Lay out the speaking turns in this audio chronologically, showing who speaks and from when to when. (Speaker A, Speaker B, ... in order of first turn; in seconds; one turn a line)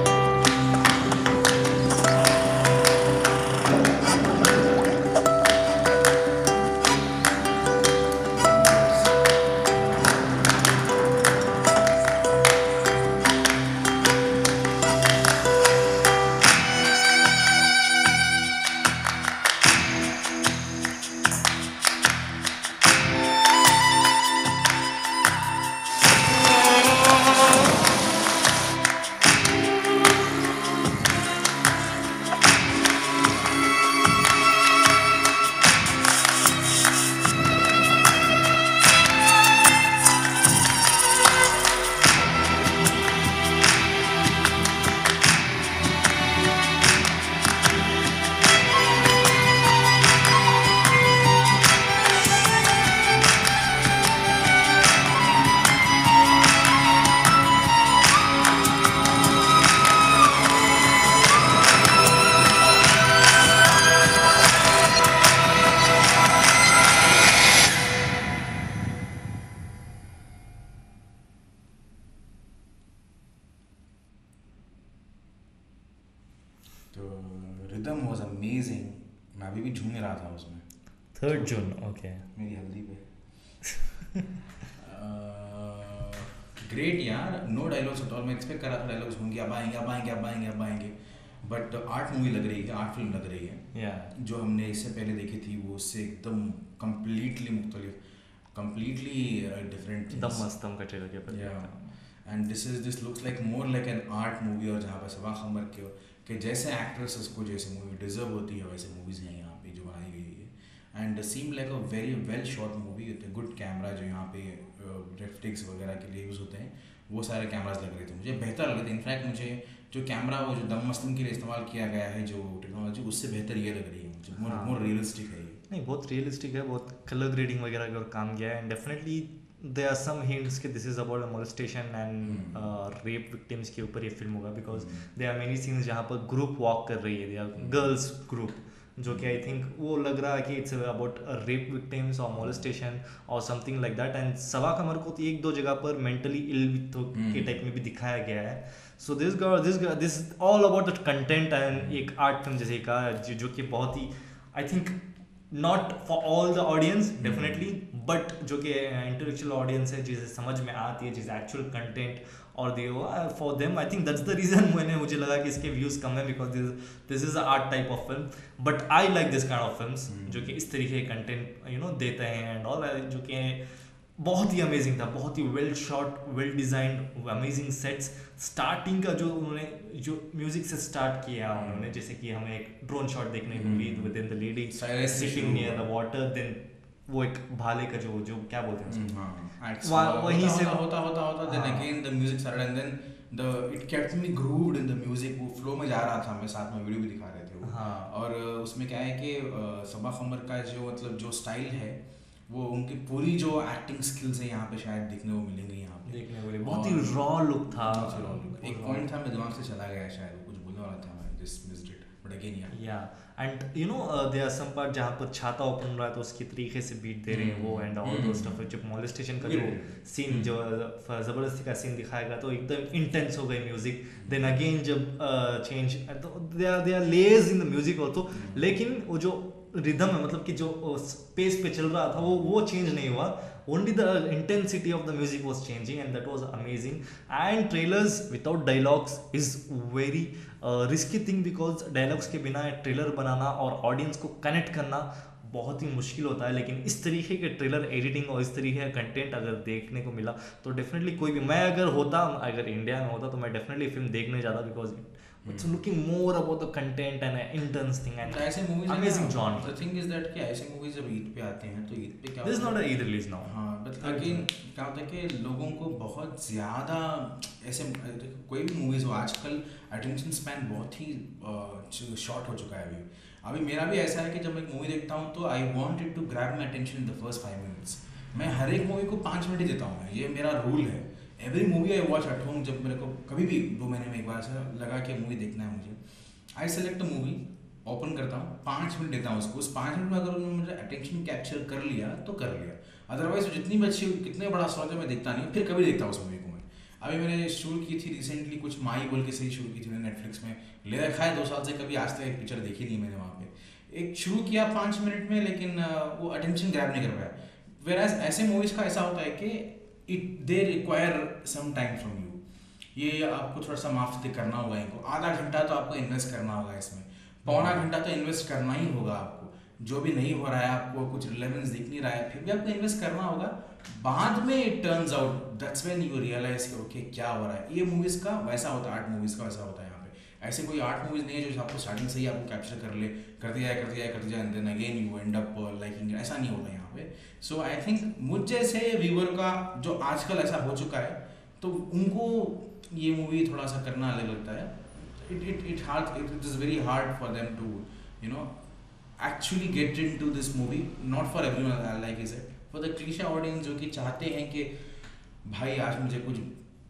Speaker A: 76.9-80.6
Speaker B: 81.1-82.2
Speaker A: 81.3-81.6
Speaker A: 82.3-83.0
Speaker B: 83.7-84.3
Speaker A: 84.7-93.6
Speaker B: 93.7-94.1
Speaker A: 94.1-98.0
Speaker A: 98.5-100.5
Speaker B: 100.1-101.9
Speaker A: 101.3-101.7
Speaker A: 102.2-125.6
Speaker B: 124.3-124.8
Speaker B: 125.7-154.9
Speaker A: 132.2-132.7
Speaker A: 134.7-135.0
Speaker A: 137.6-137.9
Speaker A: 147.1-147.5
Speaker B: 155.5-173.6
Speaker A: 157.2-157.7
Speaker A: 170.1-170.5
Speaker B: 174.2-189.1
Speaker A: 181.5-181.9
Speaker A: 183.5-184.1
Speaker A: 184.7-185.9
Speaker A: 188.9-202.0
Speaker B: 189.8-190.8
Speaker B: 191.5-191.9
Speaker B: 197.6-198.1
Speaker A: 202.5-212.7
Speaker B: 206.1-209.1
Speaker B: 212.7-259.8
Speaker A: 217.3-218.6
Speaker A: 219.4-220.5
Speaker A: 228.3-228.7
Speaker A: 255.4-255.8
Speaker A: 258.2-262.9
Speaker B: 262.4-264.4
Speaker A: 263.4-286.0
Speaker A: 286.6-312.4
Speaker A: 312.9-348.5
Speaker B: 317.5-317.9
Speaker A: 349.2-354.7
Speaker A: 355.4-356.5